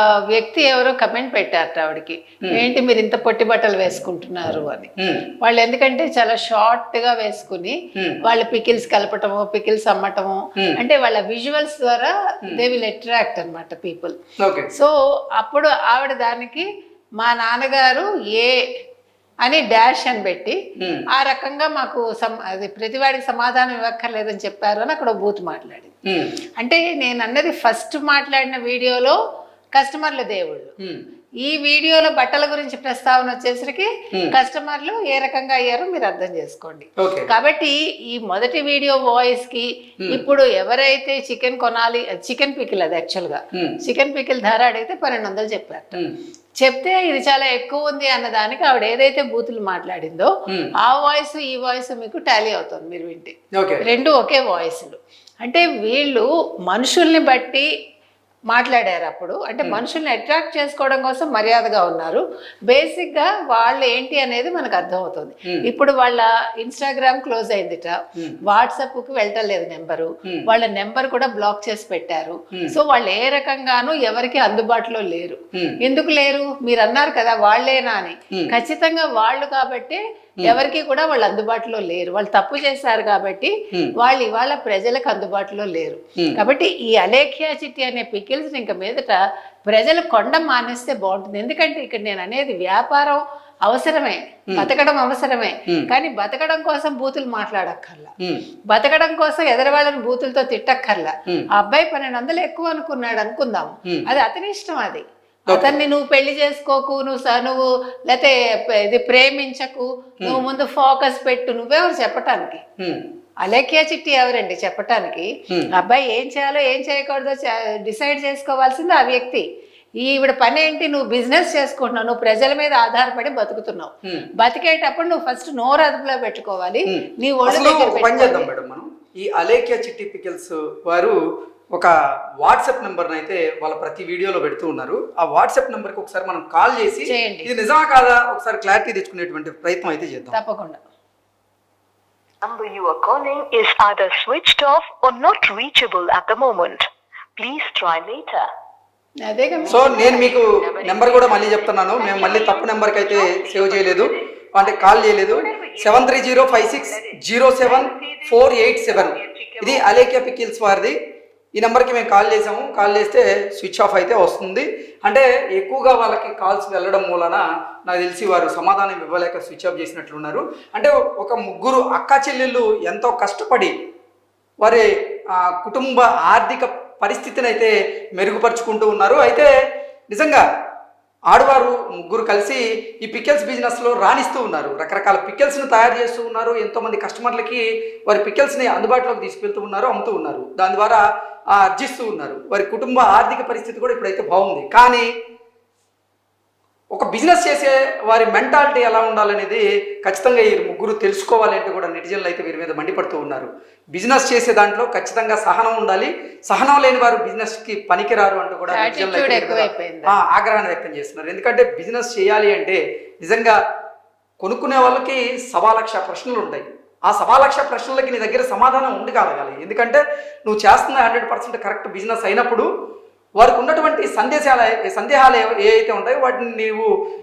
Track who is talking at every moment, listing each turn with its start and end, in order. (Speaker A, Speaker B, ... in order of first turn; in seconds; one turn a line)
Speaker A: 0.3-4.9
Speaker B: 5.0-5.2
Speaker A: 5.4-14.2
Speaker B: 14.4-14.7
Speaker A: 14.7-16.7
Speaker A: 17.2-18.6
Speaker A: 19.4-20.6
Speaker B: 20.8-21.0
Speaker A: 21.1-25.9
Speaker A: 26.6-29.1
Speaker A: 29.7-30.7
Speaker A: 31.4-46.0
Speaker B: 37.0-37.3
Speaker A: 46.6-50.3
Speaker A: 50.8-57.6
Speaker B: 53.5-53.8
Speaker A: 58.5-98.1
Speaker A: 98.7-112.6
Speaker B: 105.5-105.8
Speaker A: 113.4-119.4
Speaker A: 120.0-128.5
Speaker B: 126.9-131.2
Speaker B: 131.7-140.4
Speaker A: 137.1-137.5
Speaker A: 140.3-140.8
Speaker C: 142.4-148.4
Speaker A: 149.3-150.0
Speaker C: 149.6-159.9
Speaker B: 149.7-161.0
Speaker B: 161.6-173.7
Speaker B: 175.4-179.5
Speaker B: 180.1-180.4
Speaker B: 181.3-191.0
Speaker B: 191.5-195.1
Speaker B: 196.9-213.6
Speaker A: 208.7-210.1
Speaker B: 214.4-222.7
Speaker B: 223.4-226.9